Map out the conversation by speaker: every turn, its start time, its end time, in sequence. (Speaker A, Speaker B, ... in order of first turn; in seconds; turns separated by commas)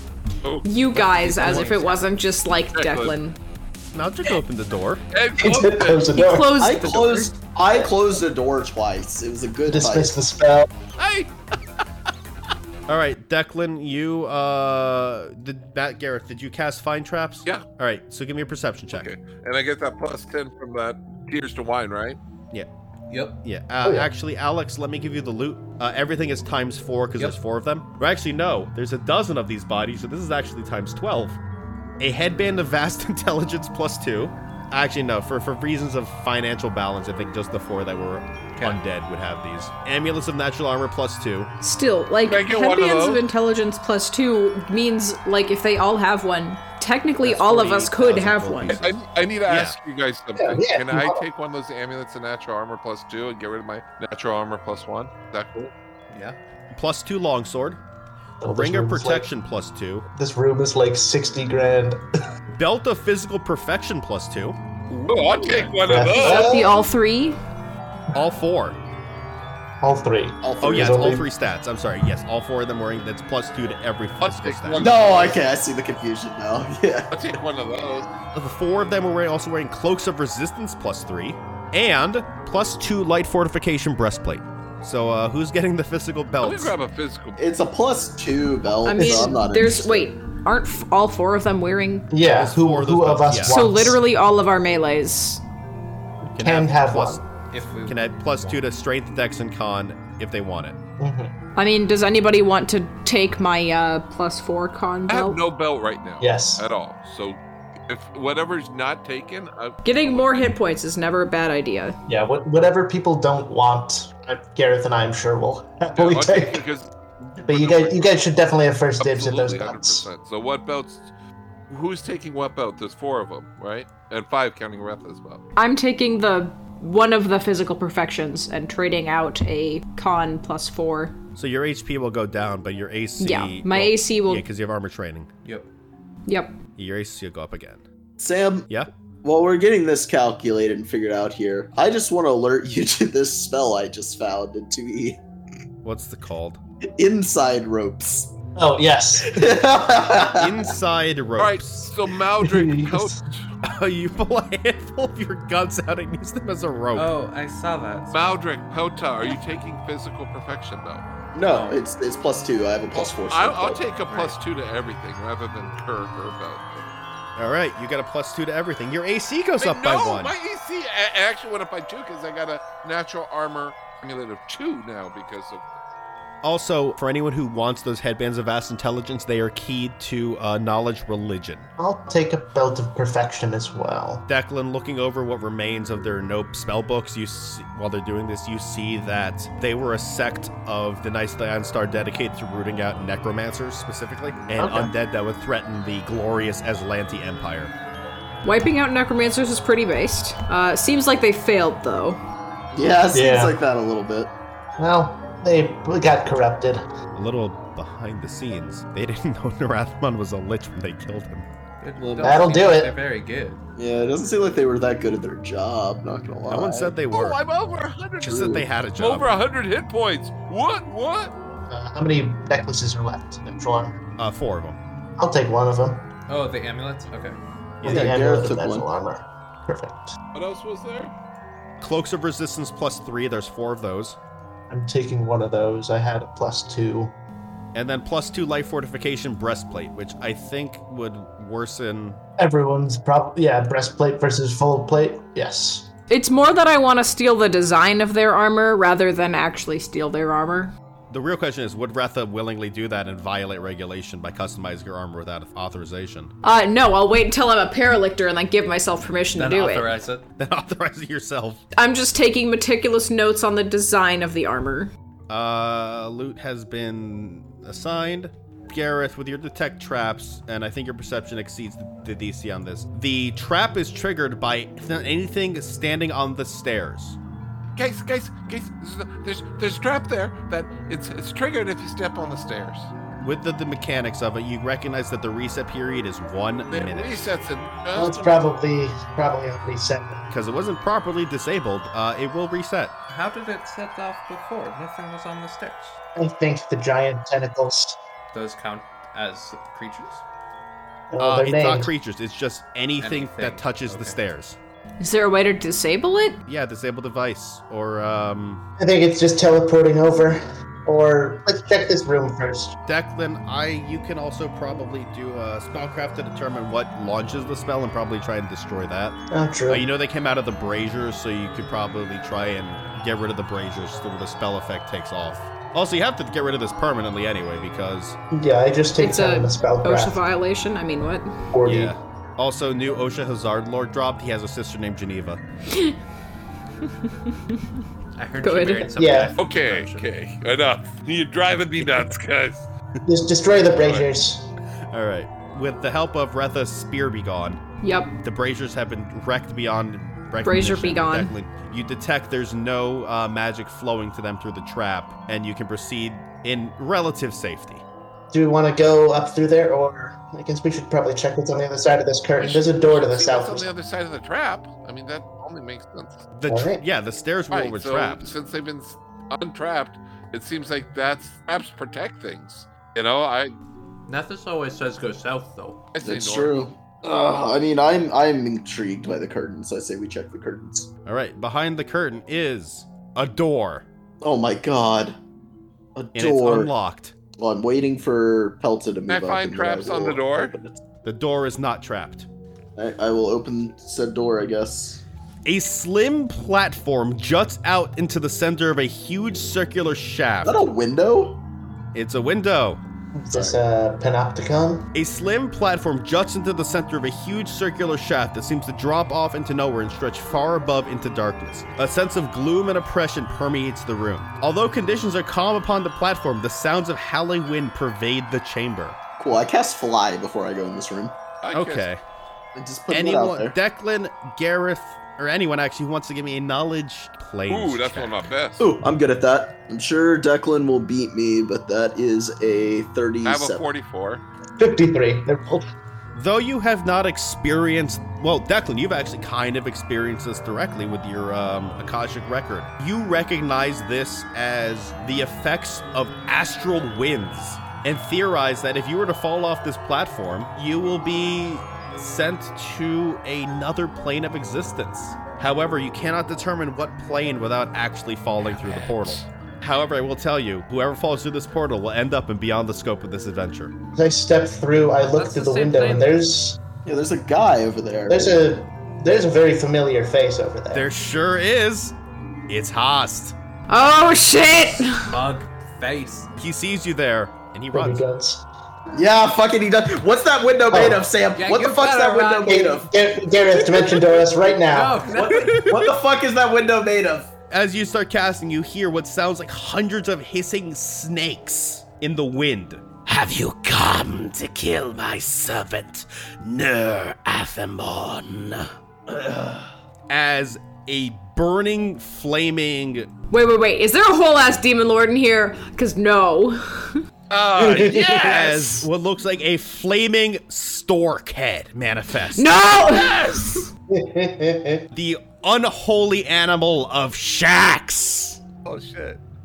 Speaker A: 0.4-0.7, Speaker B: 0.6-3.4, Speaker C: 1.2-1.8, Speaker D: 1.2-1.7, Speaker A: 2.7-3.1, Speaker D: 3.9-5.0, Speaker A: 5.1-6.4, Speaker E: 5.4-6.5, Speaker B: 6.1-7.3, Speaker F: 6.6-10.1, Speaker E: 7.7-8.0, Speaker E: 9.7-10.7, Speaker A: 11.0-11.8, Speaker D: 12.9-19.1, Speaker A: 18.9-22.2, Speaker C: 23.1-23.4, Speaker D: 23.4-31.4, Speaker E: 23.8-24.1, Speaker D: 32.0-41.5, Speaker B: 41.6-48.8, Speaker A: 42.2-43.2, Speaker D: 47.2-49.8, Speaker A: 48.7-55.7, Speaker E: 50.4-51.2, Speaker C: 56.1-56.4, Speaker D: 56.7-57.8, Speaker E: 58.4-59.3, Speaker D: 58.5-60.1, Speaker E: 60.1-62.0, Speaker D: 62.5-64.6, Speaker A: 65.0-66.6, Speaker D: 65.4-65.7, Speaker E: 65.8-66.8, Speaker B: 66.2-67.4, Speaker D: 68.1-68.8, Speaker E: 69.8-71.3, Speaker F: 70.4-71.1, Speaker D: 70.6-74.9, Speaker A: 74.2-75.4, Speaker F: 74.8-77.2, Speaker A: 77.1-78.1, Speaker D: 78.3-86.7, Speaker A: 86.4-87.4, Speaker F: 87.4-90.1, Speaker B: 88.8-92.1, Speaker E: 89.0-89.3, Speaker E: 92.1-94.0, Speaker D: 92.3-93.6, Speaker B: 93.4-95.4, Speaker D: 96.3-97.2, Speaker E: 96.4-97.2, Speaker C: 97.5-98.6, Speaker D: 97.8-100.8, Speaker E: 101.0-101.3, Speaker B: 101.5-105.4, Speaker A: 105.1-109.8, Speaker E: 106.2-106.6, Speaker B: 109.8-112.0, Speaker E: 112.1-116.6, Speaker A: 115.9-118.1, Speaker E: 117.4-120.0, Speaker A: 119.0-121.1, Speaker A: 121.7-125.4, Speaker B: 125.5-131.2, Speaker D: 131.3-135.3, Speaker B: 133.2-134.4, Speaker C: 135.4-135.7, Speaker B: 136.2-136.6, Speaker D: 136.8-137.8, Speaker F: 138.2-138.7, Speaker F: 139.2-145.2, Speaker D: 145.8-146.6, Speaker F: 147.0-148.3, Speaker E: 148.6-149.3, Speaker F: 149.2-150.7, Speaker D: 150.3-151.9, Speaker A: 151.4-153.4, Speaker E: 152.4-153.2, Speaker D: 153.6-157.1, Speaker C: 156.9-158.4, Speaker A: 158.1-161.0, Speaker F: 161.3-163.9, Speaker C: 161.4-161.8, Speaker A: 162.9-166.9, Speaker C: 164.1-164.3, Speaker D: 167.4-170.3, Speaker A: 169.6-175.6, Speaker D: 176.4-181.7, Speaker E: 181.8-184.2, Speaker D: 184.3-197.7, Speaker E: 194.6-194.9, Speaker B: 198.4-202.2, Speaker F: 202.7-204.3, Speaker E: 203.1-203.6, Speaker E: 204.8-206.8, Speaker D: 207.1-211.5, Speaker C: 211.8-213.6, Speaker F: 212.0-212.4, Speaker E: 212.2-212.9, Speaker F: 213.8-216.9, Speaker D: 216.4-217.4, Speaker A: 217.1-221.3, Speaker D: 218.2-219.3, Speaker F: 218.3-218.6, Speaker E: 221.7-224.0, Speaker D: 224.2-224.8, Speaker E: 225.2-226.0, Speaker C: 226.3-227.4, Speaker D: 227.8-228.1, Speaker F: 227.8-228.9, Speaker E: 227.8-230.2, Speaker A: 230.3-231.1, Speaker D: 231.8-234.2, Speaker E: 234.7-237.1, Speaker D: 237.7-242.2, Speaker E: 242.4-245.9, Speaker B: 246.1-250.7, Speaker D: 251.1-256.3, Speaker B: 256.4-259.9, Speaker C: 259.3-260.2, Speaker D: 260.4-261.6, Speaker B: 261.8-264.9, Speaker D: 265.3-277.2, Speaker A: 277.8-282.9, Speaker D: 283.2-287.3, Speaker A: 286.7-288.5, Speaker E: 287.9-290.2, Speaker D: 290.3-292.9, Speaker C: 293.1-295.9, Speaker E: 296.1-298.0, Speaker C: 298.3-300.2, Speaker E: 301.1-301.9, Speaker D: 301.2-304.6, Speaker C: 303.0-304.2, Speaker B: 305.0-306.4, Speaker D: 306.5-308.6, Speaker E: 308.8-312.8, Speaker D: 312.9-328.2, Speaker E: 319.3-319.8, Speaker E: 328.3-330.2, Speaker B: 329.0-331.4, Speaker E: 331.5-331.9, Speaker D: 331.6-335.4, Speaker B: 335.7-336.0, Speaker B: 336.8-337.8, Speaker C: 338.1-340.1, Speaker B: 338.4-338.9, Speaker E: 338.9-339.3, Speaker A: 339.4-342.7, Speaker E: 343.0-344.5, Speaker D: 343.8-344.0, Speaker D: 344.9-347.6, Speaker B: 347.8-348.2, Speaker D: 348.2-357.8, Speaker B: 350.4-351.3, Speaker E: 358.3-363.7, Speaker A: 362.4-366.2, Speaker D: 366.3-368.3, Speaker E: 366.5-366.8, Speaker A: 367.5-373.5, Speaker C: 374.1-375.9, Speaker A: 375.9-376.6, Speaker F: 376.0-380.9, Speaker D: 381.1-383.9, Speaker F: 384.2-385.2, Speaker F: 385.9-386.7, Speaker D: 386.1-387.1, Speaker F: 387.3-390.8, Speaker A: 389.1-390.5, Speaker D: 391.0-392.3, Speaker F: 392.8-395.0, Speaker D: 395.4-400.6, Speaker F: 400.4-401.4, Speaker D: 401.9-402.8, Speaker E: 403.1-404.9, Speaker F: 403.3-403.6, Speaker D: 404.9-419.0, Speaker F: 419.2-421.1, Speaker A: 421.4-421.9, Speaker D: 421.5-422.0, Speaker F: 422.5-423.5, Speaker D: 422.9-428.3, Speaker A: 427.5-428.6, Speaker F: 428.6-433.6, Speaker A: 433.2-434.2, Speaker E: 434.6-435.6, Speaker D: 436.1-463.7, Speaker A: 458.4-459.3, Speaker E: 463.9-466.6, Speaker C: 465.2-466.2, Speaker F: 466.9-468.4, Speaker E: 468.1-470.9, Speaker D: 470.7-471.9, Speaker D: 472.5-473.4, Speaker B: 473.7-475.1, Speaker C: 475.0-476.3, Speaker D: 476.4-478.0, Speaker E: 477.7-478.4, Speaker F: 478.9-482.9, Speaker E: 480.7-481.1, Speaker C: 481.3-482.8, Speaker E: 482.4-485.0, Speaker A: 483.7-484.1, Speaker F: 484.5-487.3, Speaker C: 484.6-486.0, Speaker D: 487.5-503.1, Speaker B: 503.3-507.0, Speaker A: 507.3-508.9, Speaker E: 507.6-508.4, Speaker D: 508.2-512.5, Speaker B: 512.4-513.6, Speaker A: 512.8-513.7, Speaker E: 513.9-514.8, Speaker D: 514.9-518.4, Speaker A: 518.6-519.2